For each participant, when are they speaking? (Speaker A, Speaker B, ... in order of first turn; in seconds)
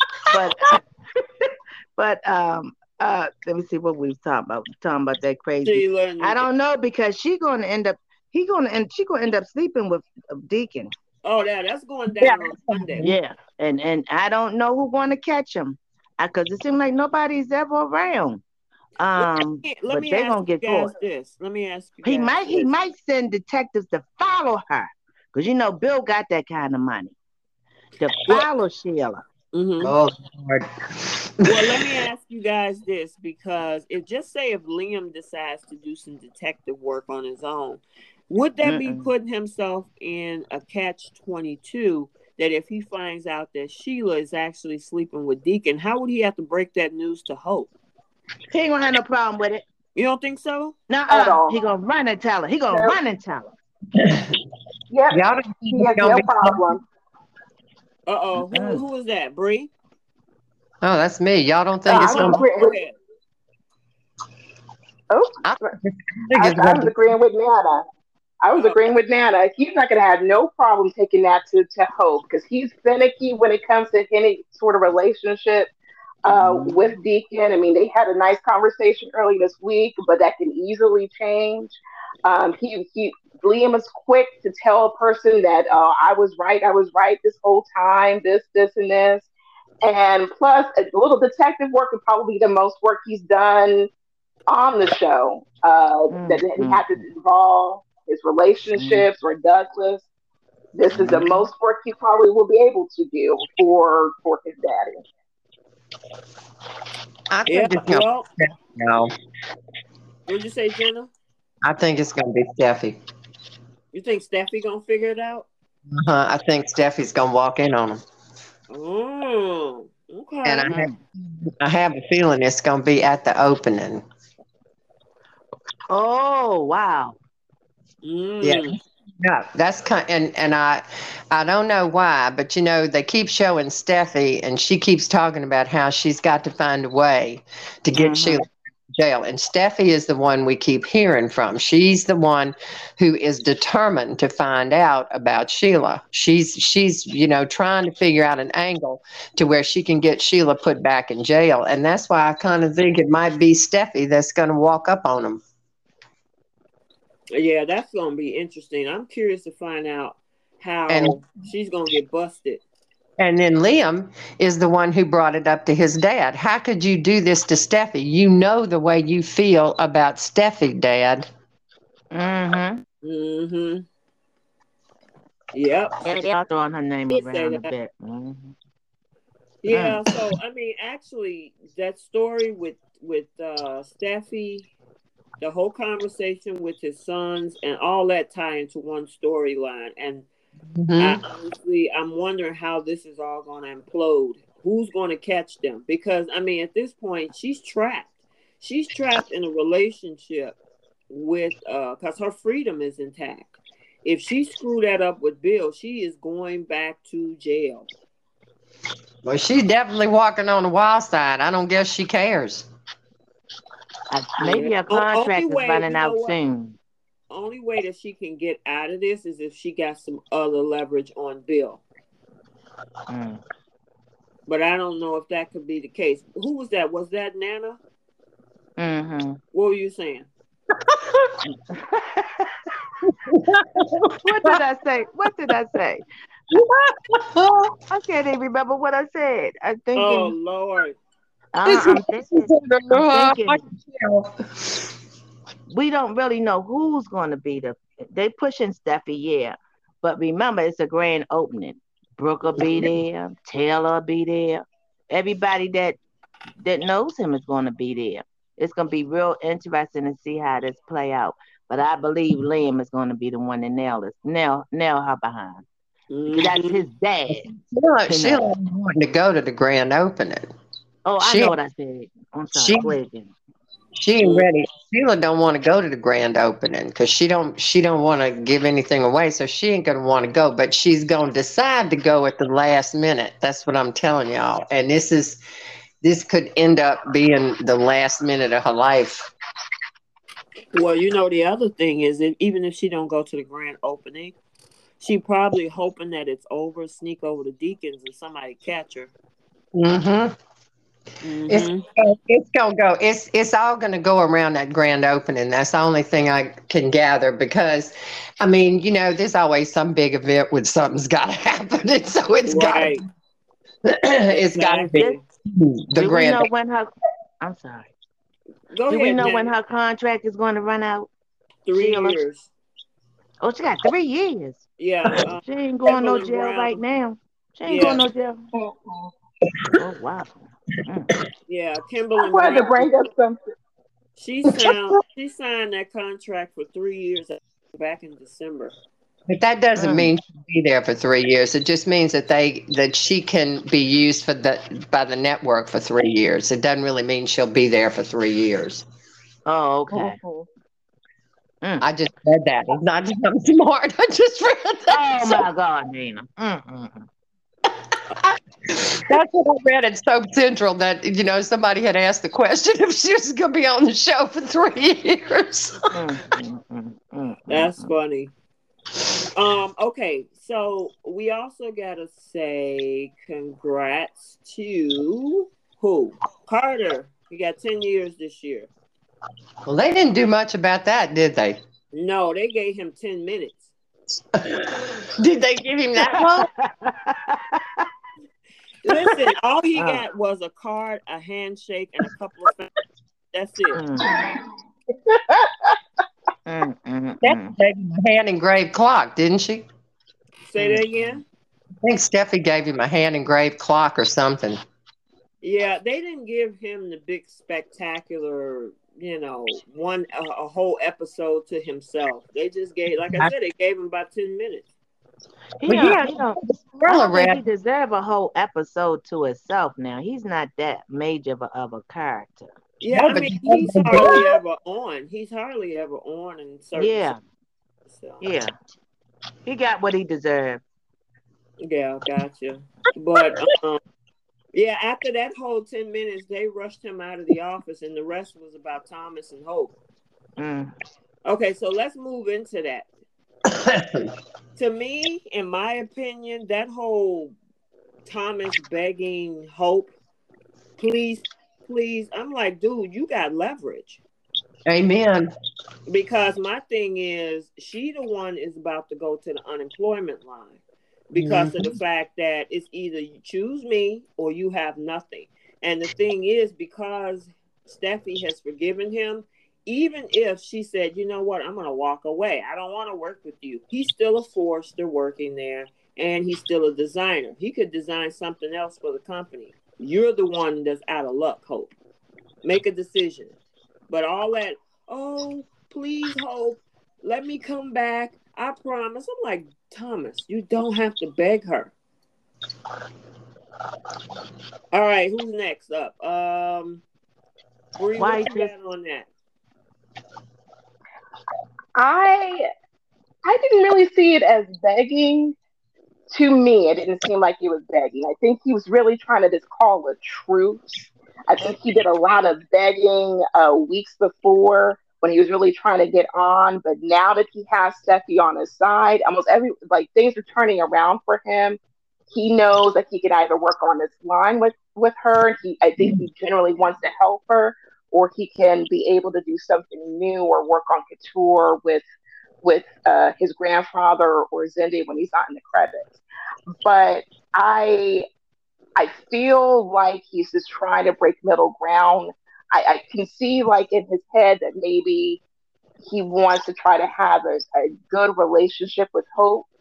Speaker A: 0.2-10.9, 13.0-18.4, 19.0-20.9, 22.0-27.1, 28.0-29.2, 38.6-39.1, 48.5-49.6, 50.9-53.5, 58.5-58.8, 76.3-76.7, 96.1-97.0, 98.8-99.0, 100.9-101.5, 120.7-121.0, 125.9-127.2, 137.9-138.4, 172.1-172.8, 176.0-178.5, 179.7-180.1, 214.1-216.8, 223.1-223.4, 228.8-229.4, 231.4-232.5, 234.2-236.0, 237.9-240.3, 241.5-243.6, 245.7-256.0, 256.6-265.6, 266.3-267.5, 268.1-268.5, 271.1-273.3, 315.9-316.9, 317.4-317.9, 318.9-321.1, 321.7-322.2, 323.4-324.6, 325.2-328.4, 329.7-331.1, 339.8-340.1, 349.4-350.2, 354.9-357.1, 365.9-367.9, 386.1-387.9, 393.7-394.2, 396.4-397.6, 415.6-422.5, 426.7-427.2, 428.2-428.5, 429.4-430.6, 440.4-440.7, 498.0-498.5
Speaker B: 5.6-6.4, 11.2-13.1, 19.2-22.7, 29.5-29.9, 31.4-47.7, 49.9-50.7, 58.1-59.7, 61.9-62.9, 68.5-68.8, 107.5-108.2, 110.3-111.1, 113.9-115.5, 118.7-120.8, 128.0-128.7, 157.3-162.6, 173.0-173.8, 175.5-176.0, 177.1-177.7, 179.6-184.7, 185.4-190.2, 191.0-200.6, 201.1-203.5, 204.0-207.9, 214.4-216.3, 217.3-221.8, 224.5-227.8, 229.5-230.3, 239.9-241.0, 266.1-266.8, 274.2-274.5, 290.7-294.4, 295.0-299.1, 301.2-301.8, 312.4-313.0, 314.3-315.2, 318.7-319.5, 321.6-322.5, 324.8-326.8, 327.6-328.0, 331.5-332.9, 334.2-338.7, 367.5-368.3, 369.3-378.7, 381.9-383.7, 388.8-392.7, 393.3-393.8, 400.4-401.2, 405.4-414.7, 422.8-427.1, 427.9-428.2, 431.6-433.8, 434.5-439.7, 441.2-442.9, 444.6-447.4, 448.1-449.9, 450.8-454.0, 455.9-481.7, 482.4-483.3, 483.9-491.7, 494.7-496.8, 497.8-499.1
Speaker C: 12.1-13.1, 29.8-30.7, 31.4-31.9, 53.9-54.4, 55.1-56.7, 60.8-62.4, 65.4-66.9, 107.3-109.1, 111.6-113.0, 115.9-118.0, 120.5-124.0, 128.4-155.4, 160.9-161.2, 163.2-171.3, 190.7-191.2, 209.2-212.7, 230.7-231.3, 233.0-234.6, 236.5-237.8, 241.7-244.9, 252.6-252.9, 267.3-270.5, 271.2-271.5, 272.5-272.9, 273.9-285.4, 286.0-289.3, 299.7-300.3, 301.5-312.9, 313.8-316.5, 334.5-334.9, 339.3-348.8, 351.8-355.4, 358.2-365.8, 379.6-381.6, 384.3-386.5, 397.2-399.6, 401.8-404.6, 415.7-417.4, 422.9-424.2, 443.5-444.1, 454.6-455.3, 461.1-461.7
Speaker D: 51.1-51.6, 52.7-53.0, 54.9-56.8, 61.9-62.8, 65.1-65.7, 66.3-67.8, 68.4-75.7, 76.2-89.3, 89.8-93.9, 94.5-100.1, 100.7-105.0, 328.5-329.1, 332.2-333.4, 350.0-350.4, 394.1-394.4, 395.1-395.8, 501.7-502.4, 503.2-505.3, 506.1-521.6, 522.1-531.8, 532.4-536.0, 536.6-538.0, 538.8-545.2, 545.8-549.5